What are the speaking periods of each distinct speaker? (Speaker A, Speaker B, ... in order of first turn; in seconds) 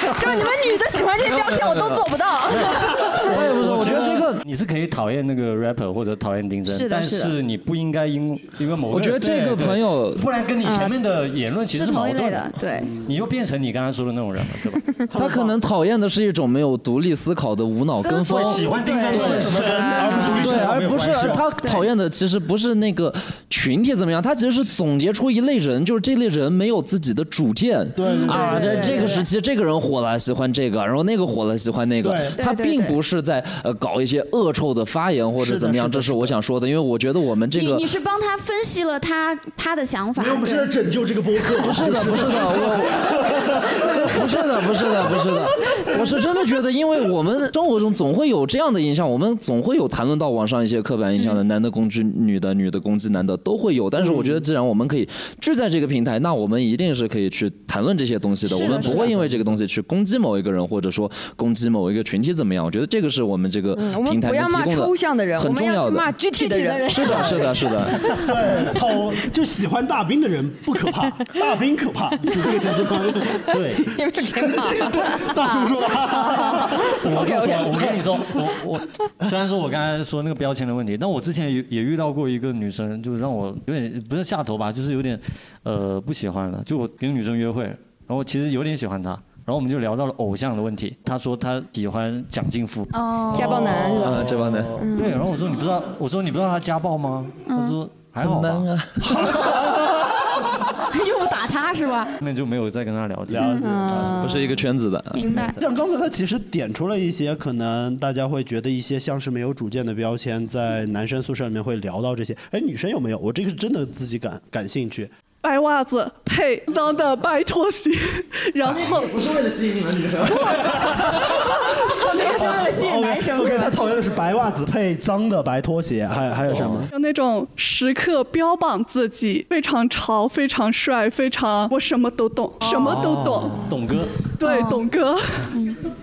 Speaker A: 0.1-3.2, 10.6-10.9, 63.8-68.8, 73.8-77.7, 93.3-95.2, 103.4-104.5
Speaker B: 1.3-2.0, 3.2-4.4, 8.9-10.2, 15.1-18.7, 20.3-37.9, 41.6-43.2, 44.0-66.2, 66.8-68.0, 94.0-94.8, 98.2-99.5, 104.1-105.3, 118.9-120.5
Speaker C: 2.5-14.9, 18.1-21.4, 73.5-74.0, 77.0-92.9, 94.9-98.7, 102.2-103.4, 126.5-126.9, 133.6-134.2
Speaker D: 6.7-7.3, 11.7-12.9, 18.0-20.4, 21.6-21.9, 28.1-29.3, 32.4-33.0, 37.5-40.7, 58.6-59.0, 92.9-93.9, 97.5-97.8, 100.8-102.1, 103.4-103.7, 105.2-105.6, 121.9-123.8, 132.6-132.9, 134.4-134.8
Speaker E: 15.1-15.6, 19.1-21.5, 28.0-29.2, 32.0-32.4, 35.4-36.4, 40.2-44.5, 54.0-54.4, 58.5-59.5, 67.1-67.4, 68.0-77.5, 93.3-94.9, 99.2-100.0, 103.3-104.5, 105.6-115.1, 120.8-126.9, 132.7-133.8
Speaker F: 115.4-119.3, 126.9-133.6, 134.4-135.5